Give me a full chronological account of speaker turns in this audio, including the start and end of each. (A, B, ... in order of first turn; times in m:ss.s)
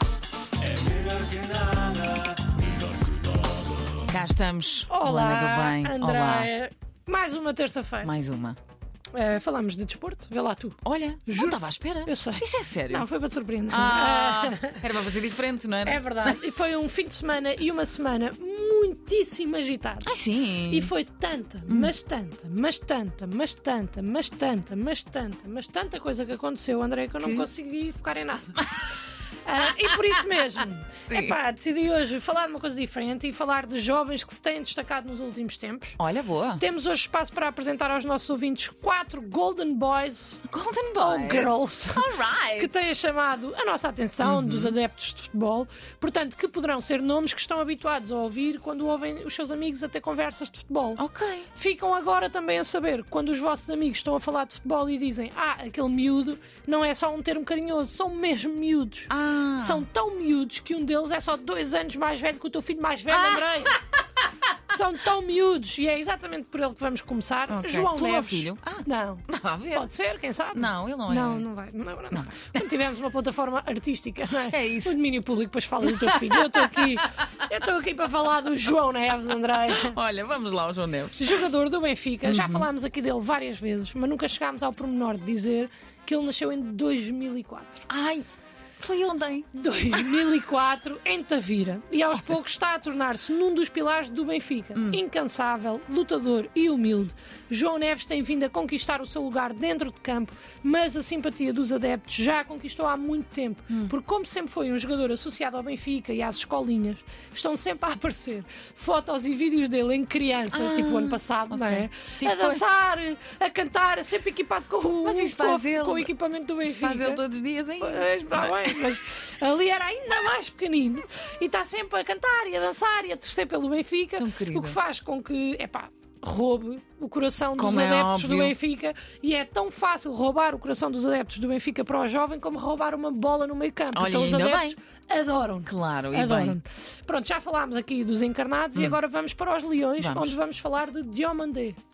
0:00.6-0:03.3 A
0:04.0-0:06.5 B
0:04.9-0:08.1 C
0:08.0-0:08.6 B
0:09.1-0:14.9 C
0:10.8-0:13.1 B
0:13.7-0:16.4 B
0:15.8-0:20.1 C
0:20.0-0:20.9 B
0:20.7-0:28.7 C
0:27.2-0:27.5 B
0:29.4-0:36.0 C
0:31.1-0:31.4 B
0:36.0-0:36.6 B
0:36.6-0:40.4 C
0:40.5-0:42.8 B
0:41.0-0:51.0 C
0:44.2-0:44.8 B
0:51.0-0:51.5 B
0:51.5-1:03.8 C
0:59.1-0:59.9 B
1:03.1-1:03.8 B
1:04.7-1:20.0 C
1:07.5-1:09.9 B
1:10.5-1:11.5 B
1:12.1-1:12.7 B
1:14.4-1:15.0 B
1:15.8-1:17.1 B
1:19.7-1:21.5 B
1:21.2-1:27.8 C
1:22.2-1:22.7 B
1:27.9-1:28.2 B
1:28.8-1:30.3 B
1:29.5-1:57.2 C
1:34.8-1:35.0 B
1:50.5-1:52.6 B
1:55.0-1:56.1 B
1:56.7-1:59.0 B
1:57.8-2:21.8 C
2:04.2-2:04.8 B
2:07.6-2:08.6 B
2:13.9-2:14.8 B
2:15.7-2:16.6 B
2:20.0-2:20.4 B